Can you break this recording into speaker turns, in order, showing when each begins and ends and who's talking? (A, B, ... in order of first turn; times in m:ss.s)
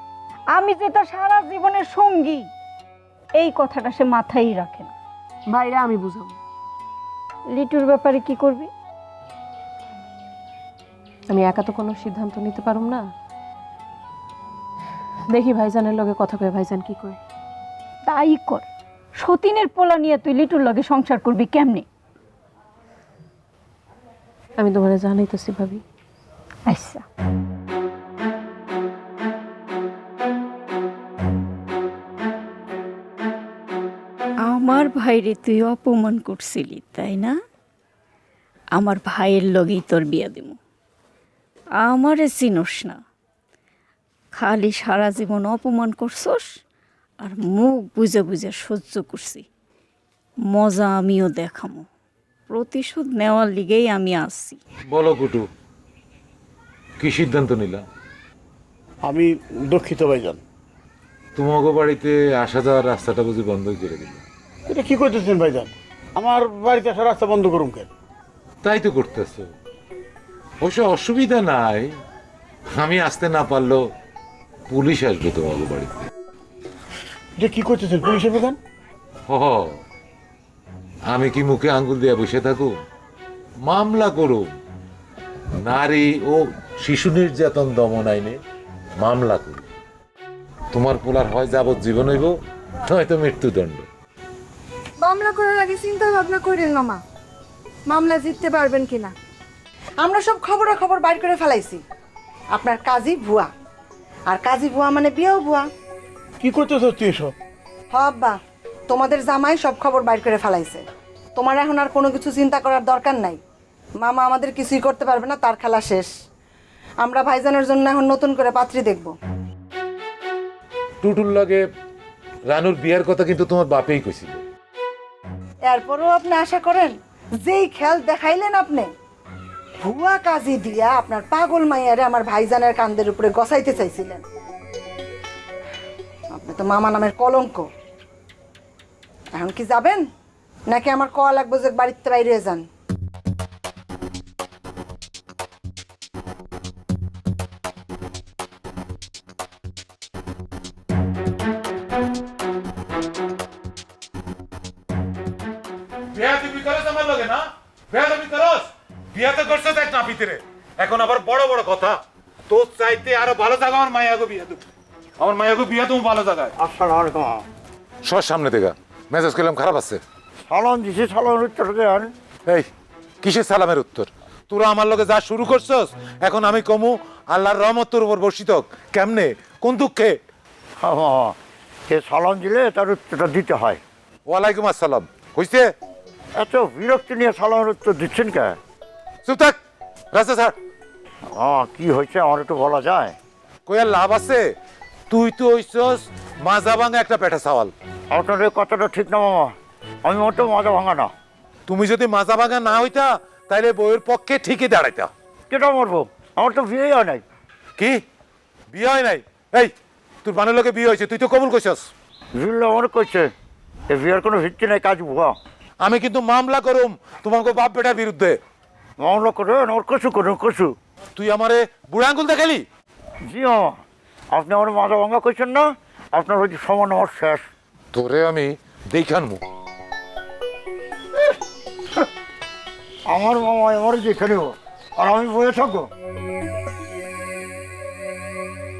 0:00.5-0:02.5 A
0:03.4-0:04.9 A
0:05.5-0:06.3 B
0:07.5-0:08.7 A
0:11.3-0:13.0 B
0:15.3-0:17.2 B
0:18.1-0:18.6 A
0:19.2-0:21.8 A
0:24.6-0:25.8 B
0:26.7-0:27.0 A
0:34.5-0:37.4 C
0:38.8-0:40.6 C
0:41.8-0:43.0 C
0:44.3-0:46.5 C
0:47.2-0:49.4 C
0:50.5-0:51.8 C
0:52.5-0:54.6 C
0:54.9-0:55.5 D
0:57.0-0:57.8 D
0:59.0-1:00.4 B
1:01.4-1:04.2 D
1:04.7-1:07.9 B
1:08.6-1:09.5 D
1:10.6-1:11.9 D
1:12.8-1:13.8 D
1:14.7-1:15.9 D
1:17.4-1:18.6 B
1:19.3-1:19.8 D
1:21.1-1:22.7 D
1:23.6-1:24.5 D
1:25.6-1:28.4 D
1:29.0-1:29.6 D
1:30.7-1:32.3 D
1:32.9-1:33.9 D
1:35.0-1:37.0 E
1:37.9-1:39.1 E
1:40.0-1:41.8 E
1:42.5-1:43.5 E
1:44.3-1:45.7 E
1:46.4-1:47.3 B
1:47.9-1:48.4 E
1:48.9-1:50.8 E
1:51.4-1:53.4 E
1:54.0-1:56.1 E
1:57.0-1:59.1 E
2:01.0-2:01.6 D
2:02.5-2:04.4 D
2:05.7-2:08.9 E
2:09.8-2:14.2 E
2:16.3-2:17.7 E
2:19.4-2:20.0 E
2:20.7-2:22.6 E
2:36.1-2:44.6 D
2:45.2-2:46.5 D
2:46.6-2:47.4 F
2:48.0-2:50.0 D
2:50.5-2:52.1 F
2:53.2-3:00.1 D
3:00.8-3:01.4 F
3:01.9-3:03.8 F
3:04.3-3:05.7 D
3:06.4-3:08.6 F
3:09.3-3:09.6 D
3:10.1-3:10.6 D
3:11.4-3:13.2 F
3:13.7-3:14.4 D
3:15.1-3:17.7 D
3:18.1-3:19.5 F
3:20.0-3:21.1 F
3:21.7-3:25.1 D
3:25.5-3:27.2 F
3:28.7-3:29.7 D
3:30.2-3:31.9 D
3:32.4-3:33.3 F
3:33.9-3:35.4 F
3:35.8-3:38.4 D
3:39.0-3:40.8 F
3:41.2-3:42.6 D
3:43.3-3:43.8 F
3:44.3-3:47.4 F
3:47.9-3:49.4 D
3:53.1-3:55.9 F